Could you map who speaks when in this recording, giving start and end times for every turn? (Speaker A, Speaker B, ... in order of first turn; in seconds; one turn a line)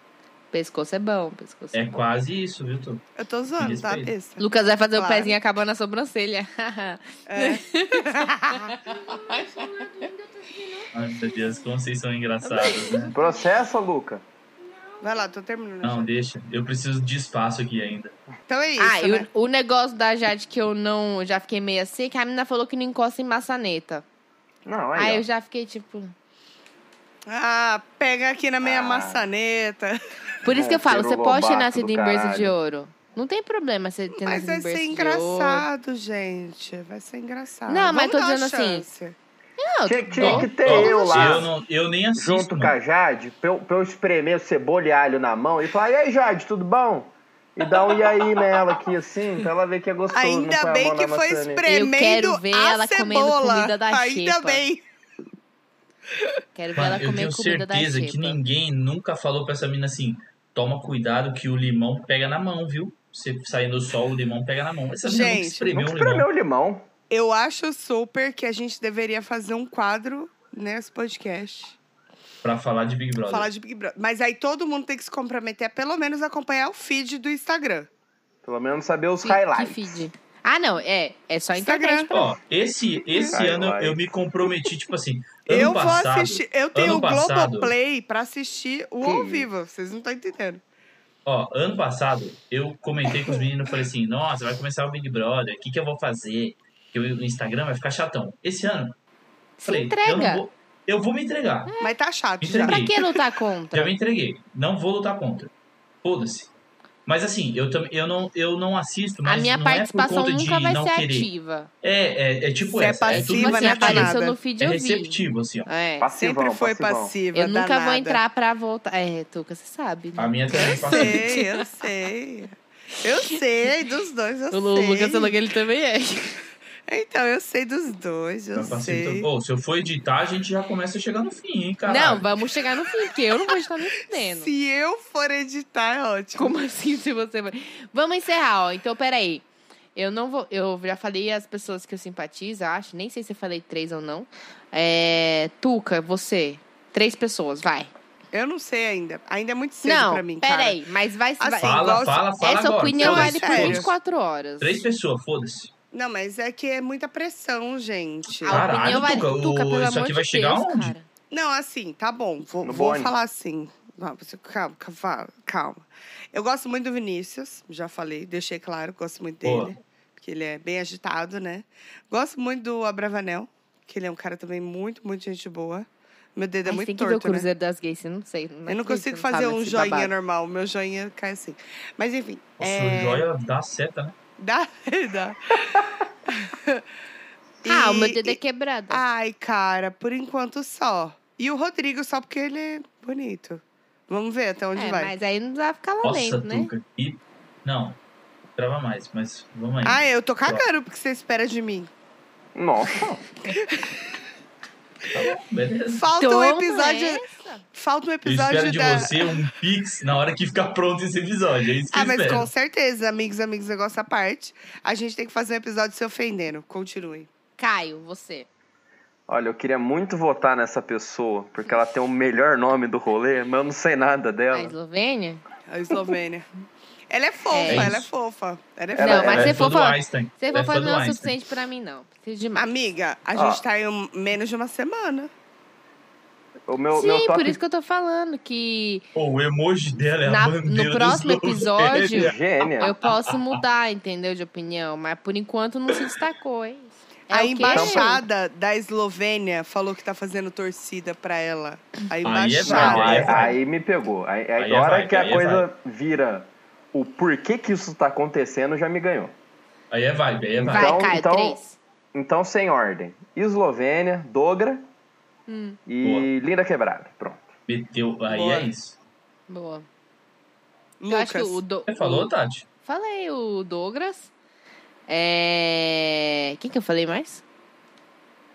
Speaker A: 0.5-1.9
Speaker B: 1.7-3.0
Speaker C: 3.2-5.4
Speaker B: 3.6-4.1
Speaker A: 4.4-11.6
Speaker C: 7.3-8.8
Speaker B: 10.9-13.1
Speaker A: 12.4-13.3
Speaker D: 13.1-14.2
Speaker A: 14.8-15.2
Speaker C: 15.0-16.1
Speaker B: 15.8-18.1
Speaker C: 18.5-19.3
Speaker A: 18.8-24.0
Speaker D: 24.6-25.2
Speaker A: 24.9-26.1
Speaker C: 27.3-30.0
Speaker D: 28.6-29.3
Speaker A: 30.4-35.7
Speaker D: 30.5-32.5
Speaker C: 34.2-39.1
Speaker A: 37.7-38.9
Speaker A: 39.6-41.4
Speaker D: 39.8-41.5
Speaker B: 40.2-42.7
Speaker D: 42.1-51.7
Speaker C: 50.1-54.8
Speaker A: 51.7-54.6
Speaker A: 56.5-58.4
Speaker B: 56.8-66.3
Speaker C: 65.0-65.7
Speaker D: 65.7-66.9
Speaker C: 67.1-71.8
Speaker B: 72.4-73.5
Speaker C: 73.3-77.9
Speaker D: 78.4-80.1
Speaker A: 79.2-82.4
Speaker C: 81.5-82.1
Speaker B: 82.1-87.7
Speaker C: 83.1-83.4
Speaker D: 83.3-84.0
Speaker C: 85.5-90.6
Speaker D: 89.0-89.5
Speaker B: 91.2-98.9
Speaker A: 99.6-100.4
Speaker B: 99.6-101.7
Speaker A: 101.7-102.0
Speaker C: 101.8-103.2
Speaker B: 102.4-103.0
Speaker A: 102.5-103.9
Speaker B: 103.7-105.5
Speaker B: 106.0-106.5
Speaker B: 107.0-111.3
Speaker A: 109.2-111.7
Speaker B: 111.8-115.7
Speaker C: 112.7-114.4
Speaker A: 113.1-116.1
Speaker D: 116.0-117.1
Speaker C: 116.2-118.2
Speaker A: 117.3-121.5
Speaker B: 120.2-121.3
Speaker C: 120.5-125.4
Speaker A: 124.5-126.4
Speaker C: 126.9-129.3
Speaker B: 128.5-132.3
Speaker A: 131.8-134.5
Speaker C: 134.1-136.5
Speaker A: 136.3-147.9
Speaker C: 148.3-150.8
Speaker A: 149.8-154.8
Speaker C: 151.4-152.2
Speaker B: 151.6-153.9
Speaker C: 153.0-153.9
Speaker B: 154.6-155.7
Speaker C: 155.9-159.0
Speaker A: 158.4-161.1
Speaker B: 158.4-160.9
Speaker C: 161.3-177.5
Speaker D: 162.6-163.1
Speaker B: 169.4-169.7
Speaker A: 176.7-180.1
Speaker C: 178.7-183.2
Speaker B: 182.6-184.1
Speaker C: 184.4-186.8
Speaker C: 187.6-188.4
Speaker A: 187.6-189.0
Speaker C: 188.9-195.1
Speaker A: 194.7-196.7
Speaker B: 196.0-198.0
Speaker B: 198.6-200.7
Speaker C: 199.8-201.9
Speaker D: 202.5-203.2
Speaker B: 205.1-206.1
Speaker C: 205.9-207.2
Speaker A: 206.2-207.6
Speaker C: 207.7-209.3
Speaker B: 208.2-212.5
Speaker C: 211.9-217.3
Speaker A: 217.6-218.5
Speaker D: 219.3-224.7
Speaker A: 224.5-225.4
Speaker C: 225.7-226.4
Speaker C: 227.1-229.6
Speaker A: 227.5-228.0
Speaker B: 227.7-228.1
Speaker D: 228.9-229.6
Speaker A: 229.0-232.7
Speaker B: 229.1-231.3
Speaker C: 232.5-235.3
Speaker D: 233.3-233.6
Speaker D: 236.7-237.6
Speaker A: 236.9-239.0
Speaker B: 239.1-242.3
Speaker A: 240.2-248.2
Speaker D: 241.9-242.9
Speaker B: 243.0-243.6
Speaker C: 247.3-253.6
Speaker D: 247.7-248.2
Speaker B: 252.2-253.6
Speaker D: 252.6-259.3
Speaker B: 254.6-255.7
Speaker B: 259.9-261.0
Speaker D: 260.6-261.6
Speaker A: 260.7-261.8
Speaker D: 262.1-264.9
Speaker A: 265.5-265.8
Speaker D: 265.9-267.5
Speaker B: 266.0-266.3
Speaker B: 267.7-268.9
Speaker D: 268.3-268.7
Speaker A: 269.5-269.9
Speaker C: 271.0-271.6
Speaker A: 271.1-272.3
Speaker B: 271.9-272.6
Speaker A: 272.8-274.3
Speaker A: 275.1-277.4